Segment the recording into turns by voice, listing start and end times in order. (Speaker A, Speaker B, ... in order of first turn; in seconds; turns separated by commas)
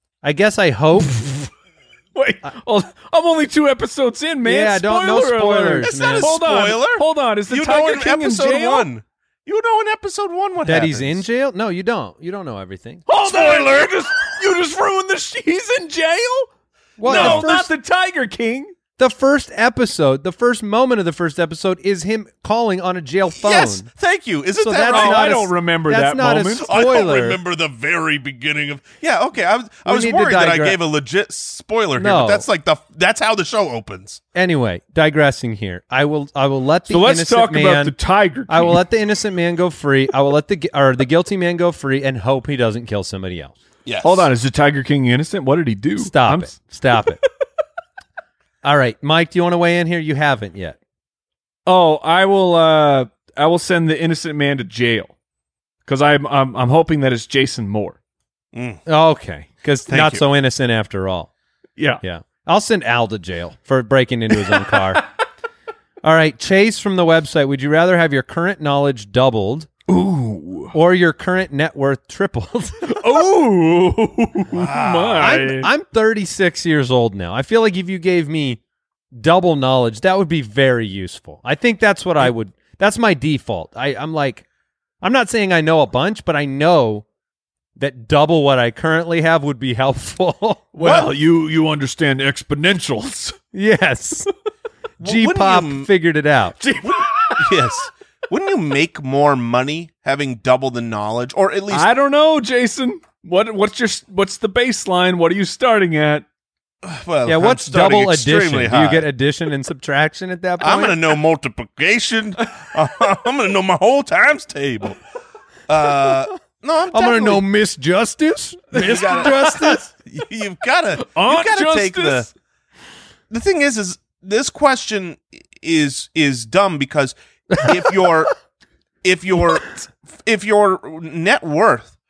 Speaker A: 0.2-1.3, Speaker B: 2.1-8.9, Speaker A: 4.5-6.3, Speaker C: 5.8-11.2, Speaker A: 10.7-13.1, Speaker B: 13.1-16.5, Speaker C: 13.2-13.9, Speaker A: 17.0-17.7, Speaker B: 17.0-18.7, Speaker C: 17.1-17.5, Speaker A: 19.0-23.9, Speaker C: 23.4-25.4, Speaker A: 24.6-27.4, Speaker B: 24.9-26.7, Speaker C: 26.6-34.2, Speaker A: 29.9-30.8, Speaker A: 32.0-32.5, Speaker A: 34.4-38.0, Speaker B: 36.9-38.8, Speaker A: 38.5-43.5, Speaker C: 43.9-44.3, Speaker B: 44.0-46.6, Speaker A: 46.0-47.2, Speaker A: 48.6-50.8, Speaker B: 51.7-55.1, Speaker B: 55.9-58.0, Speaker C: 58.5-58.8, Speaker A: 58.9-61.3, Speaker C: 59.9-60.2, Speaker A: 62.0-65.1, Speaker A: 66.0-69.7, Speaker B: 69.9-70.7, Speaker A: 70.7-73.0, Speaker B: 72.8-75.7, Speaker C: 74.5-75.4, Speaker A: 75.2-78.6, Speaker A: 79.1-84.5, Speaker A: 85.0-87.0, Speaker A: 87.8-91.1, Speaker B: 90.8-93.4, Speaker A: 93.5-94.3, Speaker C: 95.0-95.9, Speaker A: 95.0-96.6, Speaker B: 96.6-97.7, Speaker C: 96.8-101.9, Speaker B: 101.7-106.2, Speaker C: 106.8-109.1, Speaker A: 107.3-111.0, Speaker C: 110.6-115.0, Speaker C: 115.7-117.4, Speaker A: 116.9-119.9, Speaker C: 118.7-122.3, Speaker B: 119.0-119.5, Speaker B: 121.0-122.3, Speaker C: 123.3-128.3, Speaker C: 129.0-131.9